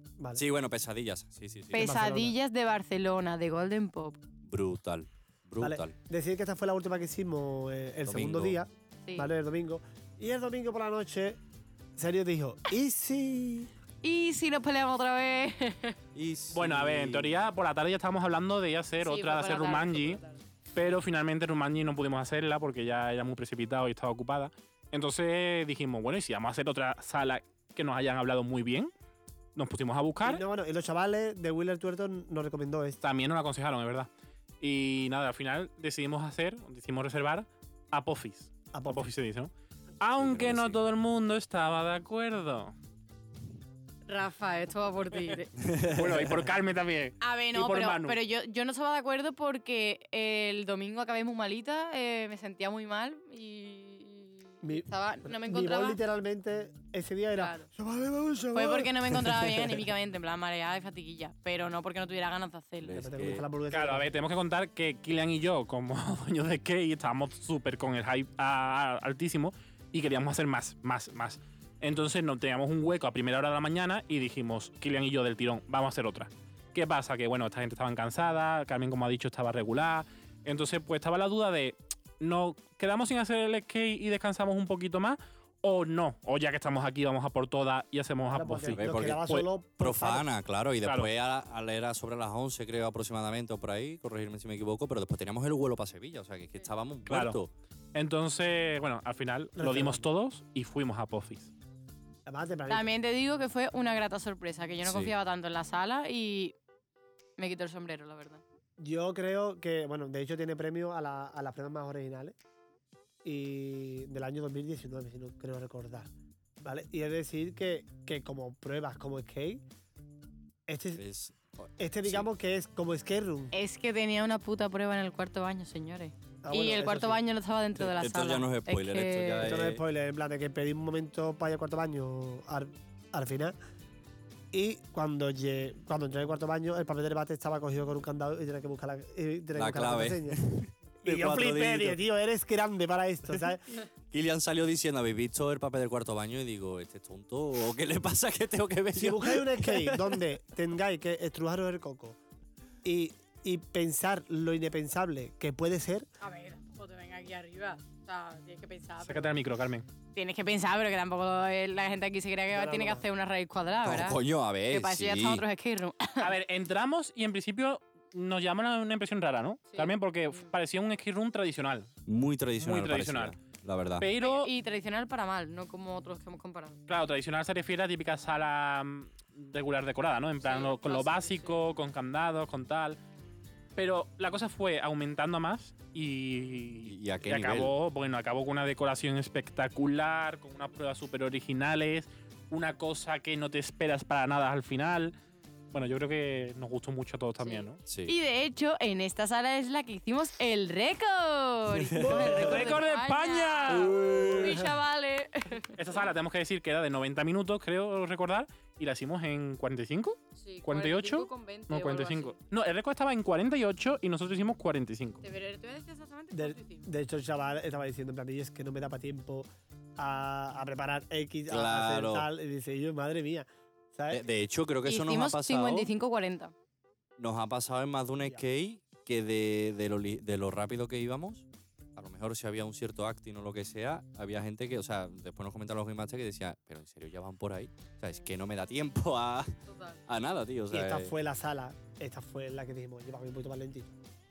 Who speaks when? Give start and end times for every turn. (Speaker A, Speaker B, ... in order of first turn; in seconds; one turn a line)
Speaker A: 0.2-0.4
Speaker B: 0.4-1.9
Speaker C: 1.7-4.2
Speaker A: 1.7-2.4
Speaker B: 4.4-6.0
Speaker A: 5.6-11.4
Speaker B: 8.1-8.6
Speaker C: 9.1-9.3
Speaker A: 12.0-13.7
Speaker C: 14.0-16.0
Speaker B: 16.1-17.3
Speaker D: 16.5-20.2
Speaker C: 19.0-20.4
Speaker D: 20.8-28.9
Speaker D: 29.6-30.4
Speaker A: 30.2-33.0
Speaker D: 33.0-34.1
Speaker D: 34.6-42.7
Speaker A: 38.7-39.1
Speaker B: 40.2-40.8
Speaker C: 44.1-45.5
Speaker B: 45.6-46.3
Speaker D: 45.8-48.2
Speaker C: 47.2-56.0
Speaker A: 54.6-59.8
Speaker C: 57.4-57.7
Speaker C: 58.5-63.0
Speaker B: 62.8-63.5
Speaker A: 62.9-64.1
Speaker D: 63.7-89.5
Speaker A: 88.3-90.3
Speaker B: 88.7-89.2
Speaker B: 89.8-97.5
Speaker D: 90.8-91.1
Speaker D: 97.1-97.4
Speaker D: 98.0-101.5
Speaker A: 99.6-100.0
Speaker A: 102.3-102.9
Speaker C: 102.7-106.5
Speaker B: 104.8-105.1
Speaker C: 107.4-108.4
Speaker A: 108.8-112.4
Speaker A: 113.2-116.1
Speaker A: 116.6-119.6
Speaker A: 120.7-121.0
Speaker B: 121.0-122.3
Speaker A: 121.8-123.5
Speaker C: 123.5-129.5
Speaker A: 126.4-127.2
Speaker B: 127.8-129.8
Speaker A: 129.4-133.6
Speaker A: 134.5-140.4
Speaker B: 139.6-142.0
Speaker A: 141.0-143.8
Speaker B: 144.1-150.2
Speaker A: 148.9-152.2
Speaker A: 152.8-156.1
Speaker C: 156.2-159.3
Speaker D: 159.1-159.9
Speaker C: 160.1-166.3
Speaker A: 162.5-163.1
Speaker B: 163.8-165.4
Speaker D: 166.2-171.9
Speaker C: 169.7-170.5
Speaker B: 172.1-174.1
Speaker D: 172.6-173.4
Speaker D: 174.0-174.5
Speaker C: 174.2-176.8
Speaker D: 176.9-183.0
Speaker C: 180.4-181.6
Speaker D: 183.8-195.2
Speaker B: 186.8-187.7
Speaker D: 195.7-197.8
Speaker C: 197.4-205.8
Speaker B: 197.9-198.2
Speaker B: 201.8-202.2
Speaker A: 202.0-202.8
Speaker D: 202.1-204.0
Speaker A: 203.8-204.7
Speaker B: 204.0-204.6
Speaker D: 205.8-215.2
Speaker C: 210.4-212.4
Speaker C: 215.2-216.9
Speaker A: 216.3-224.2
Speaker B: 221.5-222.3
Speaker B: 224.1-225.9
Speaker C: 224.9-226.5
Speaker B: 227.2-241.1
Speaker C: 239.7-240.0
Speaker A: 240.7-243.9